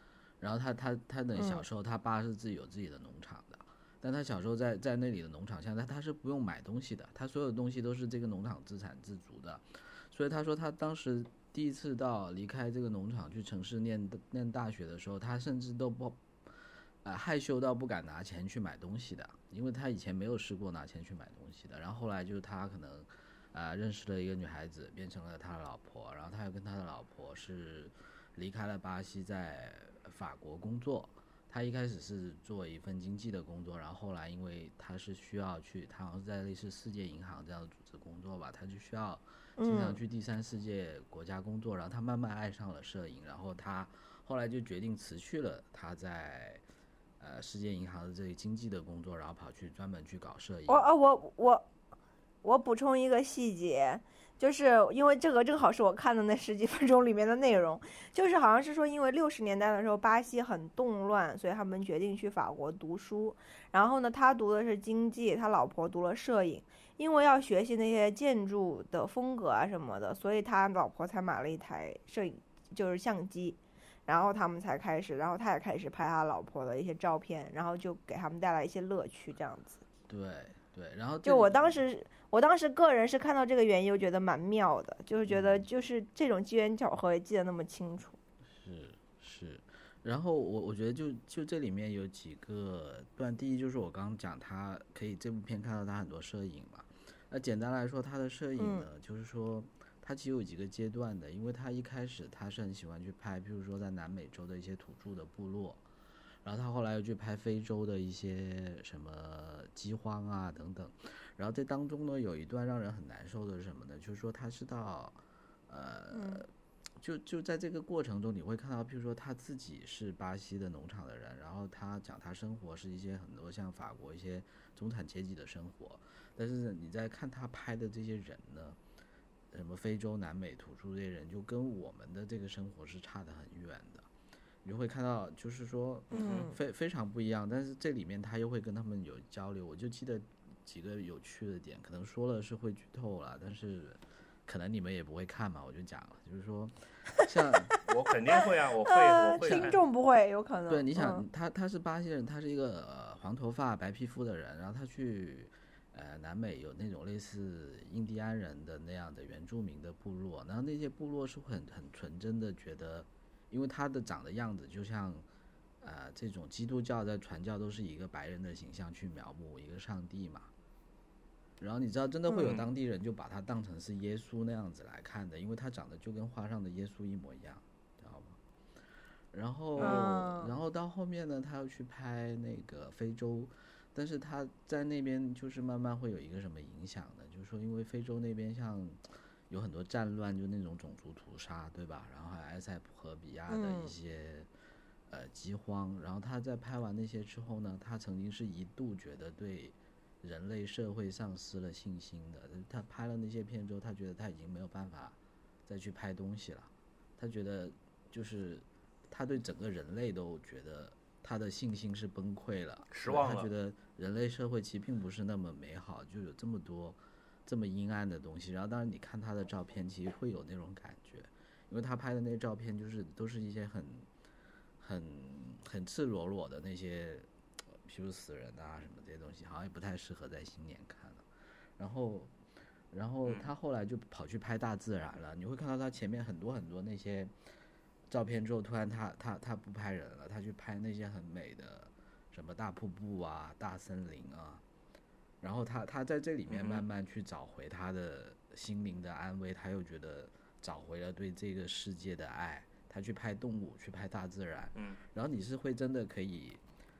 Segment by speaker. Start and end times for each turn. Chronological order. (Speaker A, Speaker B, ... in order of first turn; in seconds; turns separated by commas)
Speaker A: 0.4-46.6, Speaker B: 1.4-1.6, Speaker B: 39.6-40.0, Speaker A: 47.2-50.9, Speaker B: 50.7-51.6, Speaker B: 52.4-79.8, Speaker A: 80.1-81.8, Speaker B: 81.2-88.2, Speaker A: 85.3-85.7, Speaker A: 88.5-105.8, Speaker B: 98.6-98.9, Speaker A: 106.4-116.5, Speaker B: 116.1-116.4, Speaker A: 117.0-128.8, Speaker A: 129.5-134.1, Speaker A: 134.6-147.7, Speaker C: 136.1-136.5, Speaker B: 136.1-136.6, Speaker C: 147.8-149.8, Speaker B: 148.9-151.2, Speaker A: 149.4-149.7, Speaker A: 150.7-165.2, Speaker A: 165.8-170.5, Speaker A: 171.6-178.4, Speaker B: 172.3-172.6, Speaker A: 179.3-194.5, Speaker C: 179.8-180.0, Speaker B: 179.8-180.5, Speaker B: 193.5-193.9, Speaker A: 195.1-224.1, Speaker C: 212.9-213.5, Speaker A: 224.8-227.3, Speaker A: 227.8-231.3, Speaker A: 231.8-232.3, Speaker A: 232.9-237.3, Speaker C: 233.2-233.5, Speaker A: 238.1-244.6, Speaker A: 245.4-256.6, Speaker C: 246.5-246.8